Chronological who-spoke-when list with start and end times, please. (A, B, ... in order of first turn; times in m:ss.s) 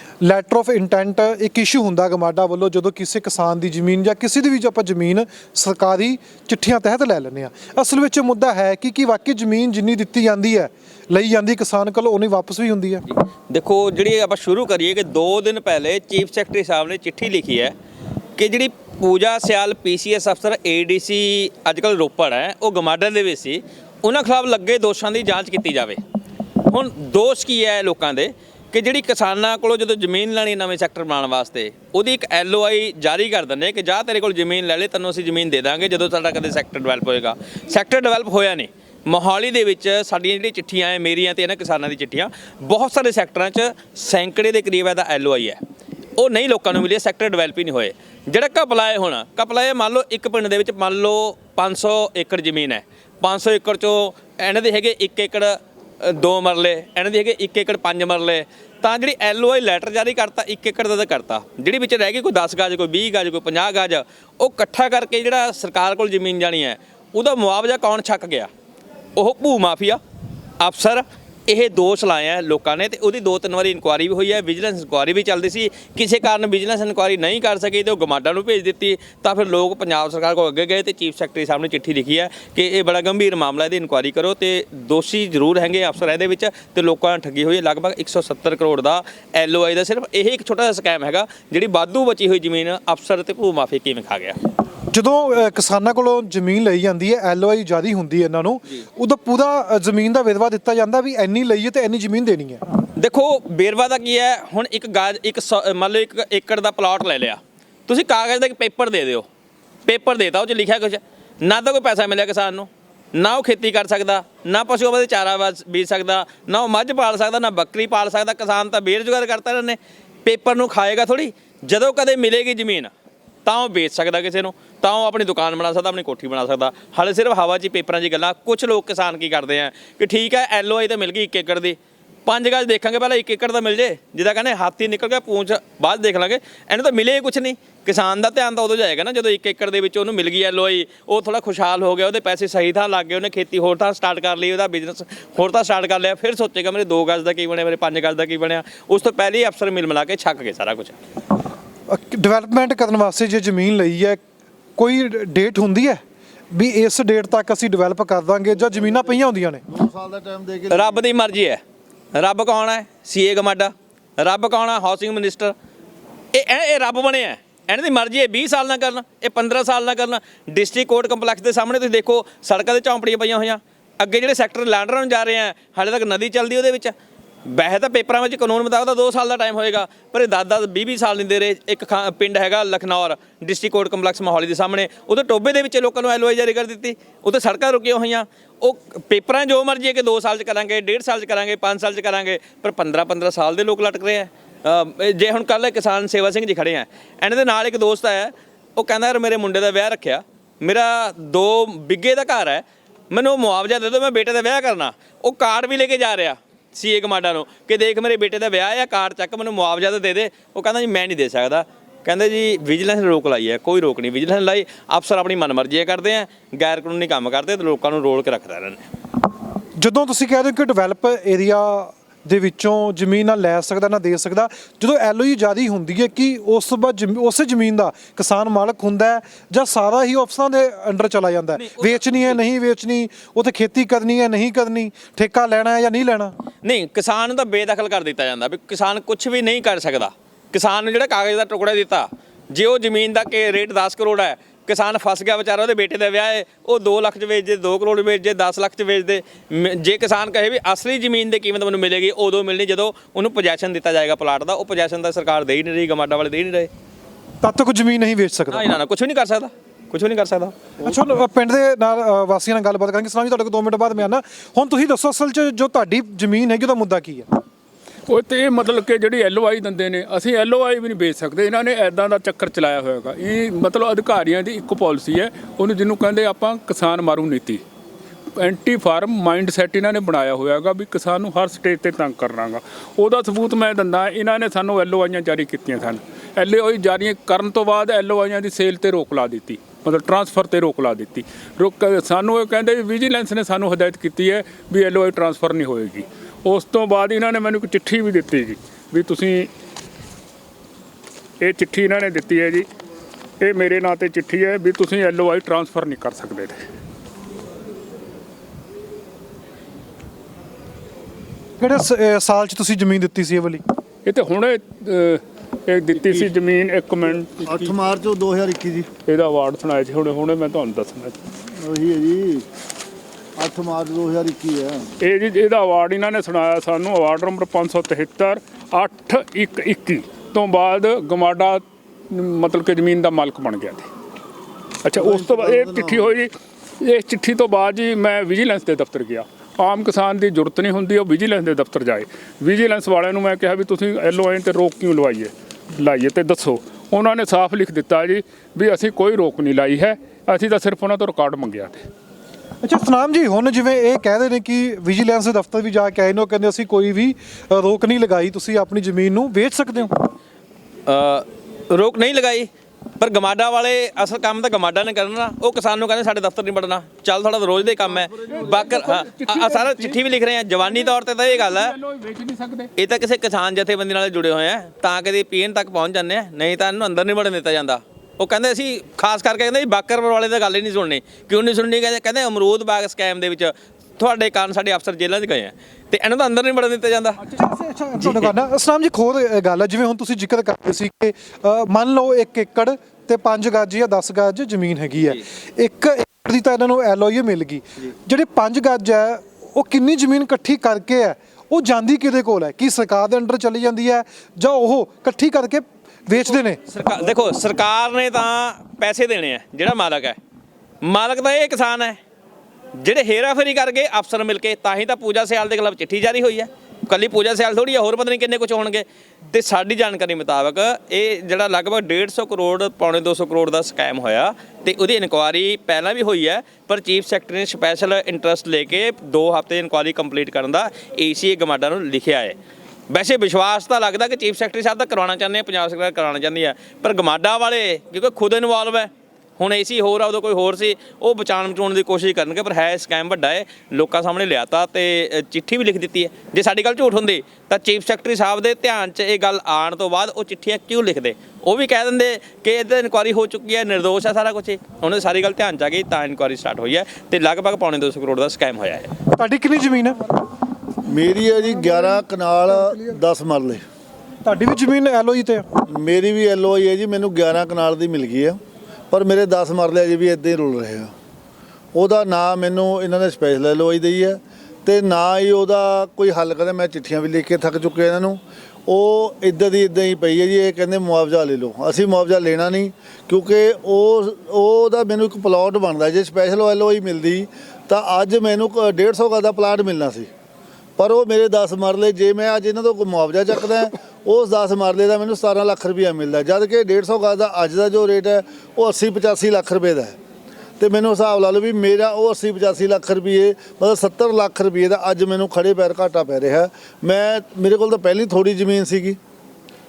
0:00.2-0:13.0 A
0:13.1-0:17.7 B
0:18.4-0:26.0 B
0:26.7-0:45.6 B
0:46.2-1:08.5 B
1:09.2-1:10.0 B
1:10.6-1:34.4 B
1:34.9-1:42.6 A
1:43.0-1:49.3 B
1:49.8-2:02.9 B
2:03.5-2:31.0 B
2:31.9-2:34.2 A
2:34.8-2:36.0 A
2:36.5-2:39.6 A
2:39.7-2:41.0 C
2:40.7-2:41.6 B
2:42.2-2:45.5 B
2:46.3-2:56.9 B
2:57.5-3:38.9 B
3:39.8-3:56.3 A
3:51.6-3:52.3 B
3:56.6-4:16.7 B
4:17.4-4:18.7 A
4:18.5-4:20.6 B
4:20.8-4:27.3 A
4:28.1-4:37.6 D
4:38.4-4:59.5 D
5:01.4-5:02.7 D
5:03.4-5:06.6 D
5:11.6-5:13.6 A
5:14.0-5:17.6 D
5:17.4-5:18.9 C
5:19.1-5:21.1 D
5:21.6-5:22.4 C
5:23.4-5:24.9 C
5:25.0-5:33.9 D
5:34.8-5:51.9 D
5:34.9-5:36.2 C
5:52.6-5:59.9 A
6:00.9-6:02.5 B
6:03.0-6:11.8 B
6:08.3-6:10.0 D
6:10.6-6:12.7 D
6:12.8-6:27.2 B
6:27.3-6:46.6 A
6:28.0-6:28.3 B
6:46.7-6:50.2 B
6:50.8-6:52.0 B
6:52.8-7:12.4 B
7:12.9-7:38.9 B
7:39.1-7:40.1 A
7:40.8-7:43.6 C
7:44.2-7:45.4 A
7:45.7-7:48.4 C
7:48.9-7:50.9 C
7:51.8-8:10.1 C
8:10.8-8:20.0 C
8:20.6-8:29.0 C